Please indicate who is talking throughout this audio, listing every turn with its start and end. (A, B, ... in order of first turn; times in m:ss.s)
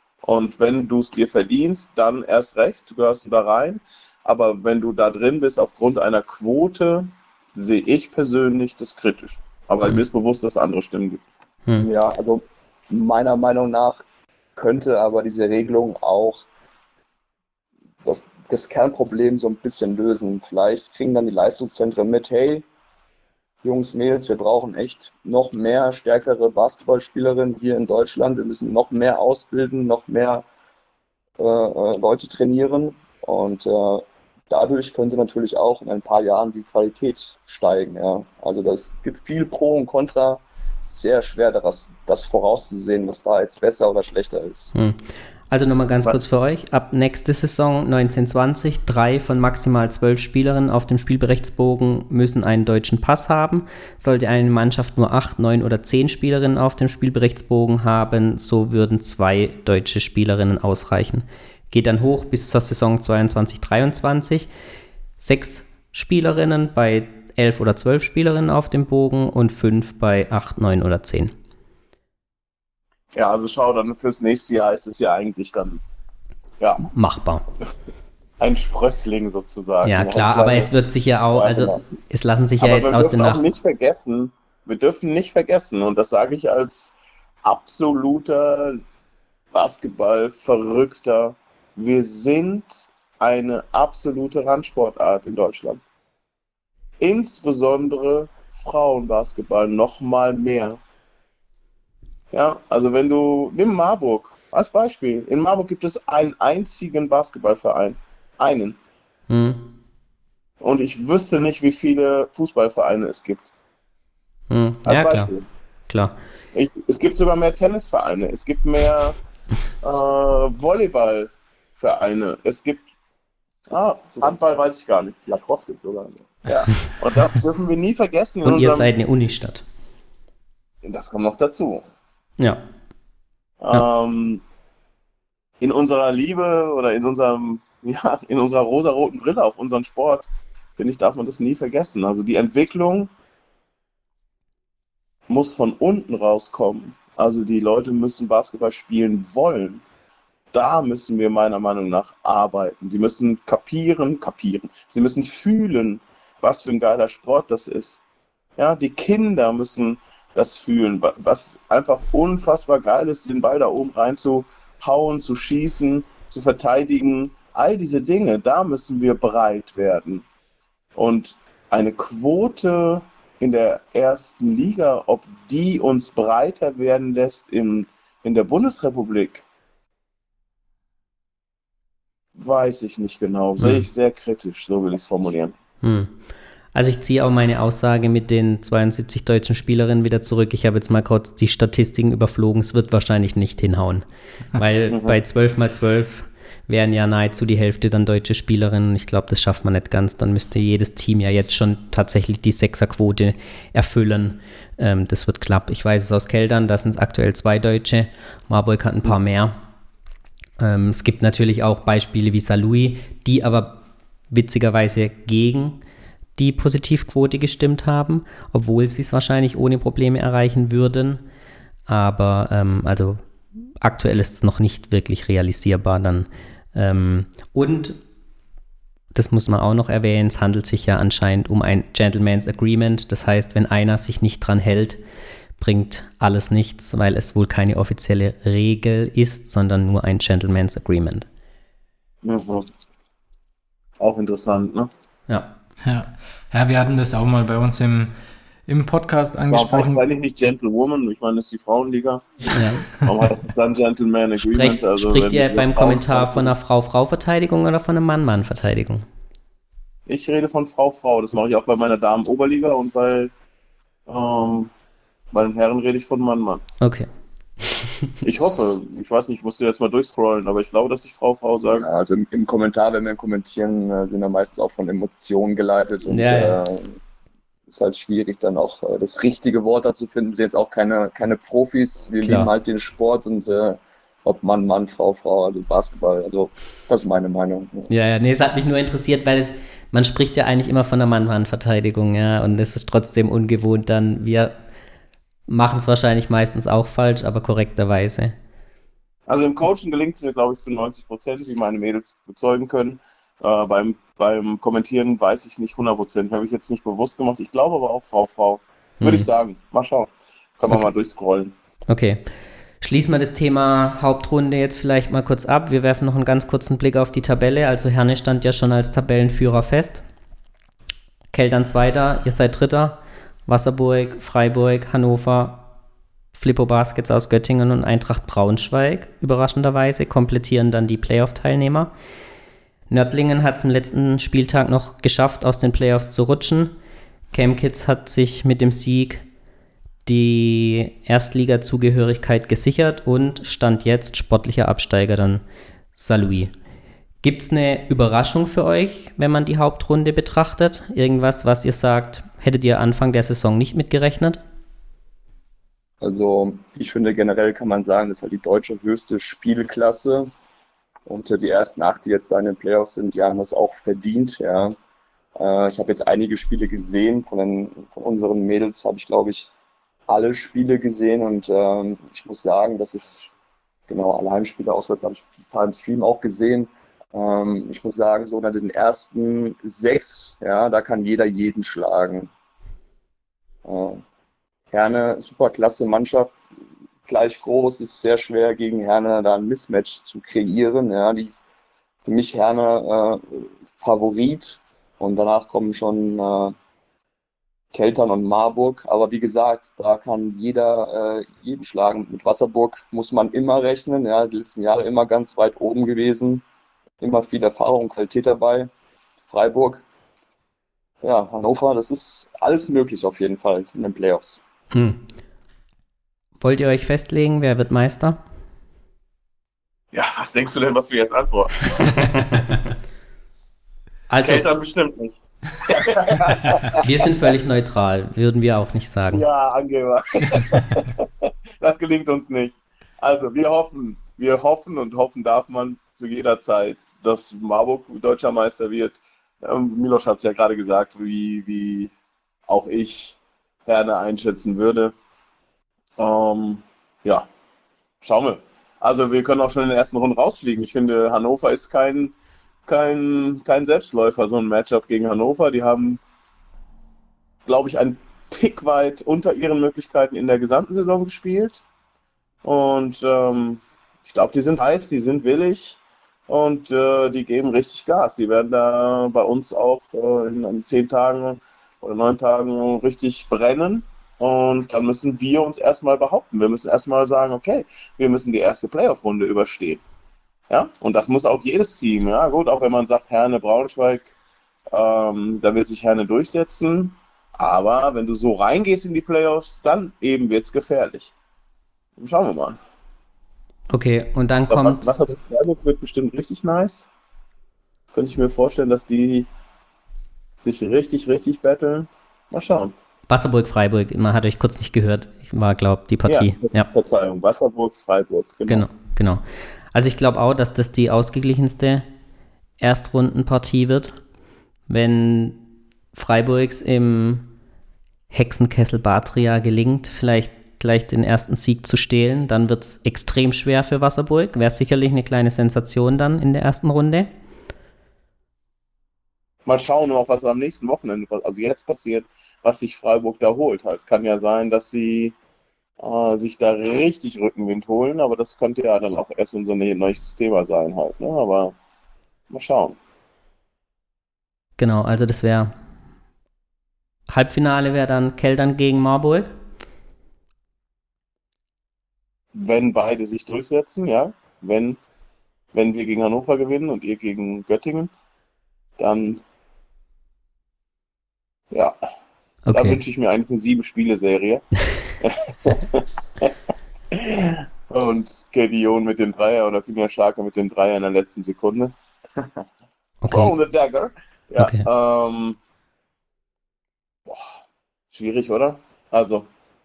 0:00.2-0:11.2 A
0:11.8-0:14.0 B
0:14.5-0:16.4 B
0:18.0-0:22.6 B
0:23.6-0:30.4 B
0:31.4-0:44.7 B
0:44.7-1:04.5 C
1:05.2-1:11.3 C
1:13.1-1:15.8 A
1:16.6-1:16.8 A
1:16.8-1:17.4 C
1:18.4-1:20.7 A
1:19.8-1:23.4 C
1:21.3-1:21.8 A
1:22.6-1:28.8 A
1:29.5-1:35.8 A
1:37.0-1:40.8 A
1:42.3-1:48.8 A
1:49.3-1:49.7 C
1:50.6-1:53.5 A
1:54.5-1:55.3 C
1:54.8-1:55.4 A
1:55.9-1:56.1 C
1:56.5-1:59.2 A
1:59.8-2:02.8 A
2:03.7-2:05.2 A
2:05.2-2:06.3 B
2:06.5-2:08.9 A
2:08.4-2:09.6 C
2:10.8-2:11.8 A
2:13.6-2:14.4 A
2:15.6-2:23.1 A
2:25.3-2:29.8 A
2:30.5-2:38.0 A
2:38.6-2:50.2 A
2:51.0-2:59.4 A
3:02.4-3:05.5 A
3:03.6-3:03.8 C
3:05.8-3:06.1 C
3:06.7-3:29.6 C
3:14.9-3:15.2 A
3:30.6-3:35.8 C
3:36.4-3:41.2 C
3:41.9-3:43.2 C
3:43.8-3:48.0 C
3:49.1-3:55.0 C
3:55.6-4:01.3 C
4:02.2-4:02.7 A
4:04.0-4:04.9 A
4:05.3-4:05.5 C
4:05.8-4:08.2 D
4:08.7-4:10.0 D
4:09.5-4:16.5 A
4:12.5-4:12.8 C
4:14.4-4:19.0 C
4:20.1-4:23.3 A
4:24.1-4:24.7 A
4:25.3-4:26.6 A
4:26.8-4:27.1 C
4:27.6-4:28.1 C
4:28.2-4:31.8 A
4:31.8-4:37.0 B
4:36.0-4:36.6 C
4:37.7-4:47.9 B
4:42.2-4:42.5 C
4:47.9-4:54.5 C
4:55.5-4:58.3 C
4:59.3-5:11.5 A
5:09.0-5:09.3 C
5:11.9-5:12.2 C
5:12.8-5:20.0 C
5:21.3-5:25.7 C
5:26.3-5:31.9 C
5:32.9-5:36.7 C
5:37.3-5:39.2 C
5:40.0-5:45.4 C
5:45.9-5:46.5 C
5:47.2-5:54.4 C
5:56.0-6:00.3 B
6:01.0-6:04.7 B
6:05.4-6:09.5 B
6:10.1-6:13.3 B
6:13.9-6:22.3 B
6:23.6-6:24.0 B
6:24.7-6:26.5 B
6:27.0-6:31.4 B
6:32.0-6:36.6 B
6:37.7-6:46.4 B
6:47.0-6:48.7 B
6:49.3-6:49.8 B
6:51.0-6:54.4 B
6:54.7-6:55.0 C
6:56.4-6:58.2 C
6:59.9-7:02.0 A
7:02.0-7:02.6 C
7:04.1-7:04.5 C
7:04.2-7:06.8 A
7:06.8-7:09.2 C
7:09.1-7:21.9 A
7:22.5-7:24.9 A
7:26.0-7:27.3 A
7:28.0-7:32.1 A
7:32.6-7:36.0 A
7:37.4-7:41.6 A
7:42.4-7:59.8 A
8:00.5-8:04.1 A
8:04.7-8:11.1 A
8:12.0-8:12.6 A
8:13.7-8:14.9 C
8:14.5-8:16.9 A
8:17.9-8:19.3 A
8:20.4-8:22.7 A
8:23.1-8:26.7 C
8:26.1-8:28.6 A
8:28.5-8:31.9 C
8:32.6-8:33.9 C
8:34.7-8:35.4 C
8:35.9-8:37.3 C
8:38.1-8:47.1 C
8:49.4-8:55.1 A
8:55.8-9:01.6 A
9:02.3-9:02.8 A
9:04.6-9:05.5 C
9:07.1-9:09.3 C
9:12.3-9:14.8 A
9:15.5-9:17.9 A
9:18.8-9:19.2 A
9:21.5-9:21.8 A
9:22.4-9:22.8 C
9:22.5-9:24.4 A
9:25.0-9:26.3 A
9:26.9-9:31.7 A
9:33.0-9:33.3 C
9:33.0-9:35.4 A
9:34.4-9:34.6 C
9:37.9-9:39.3 A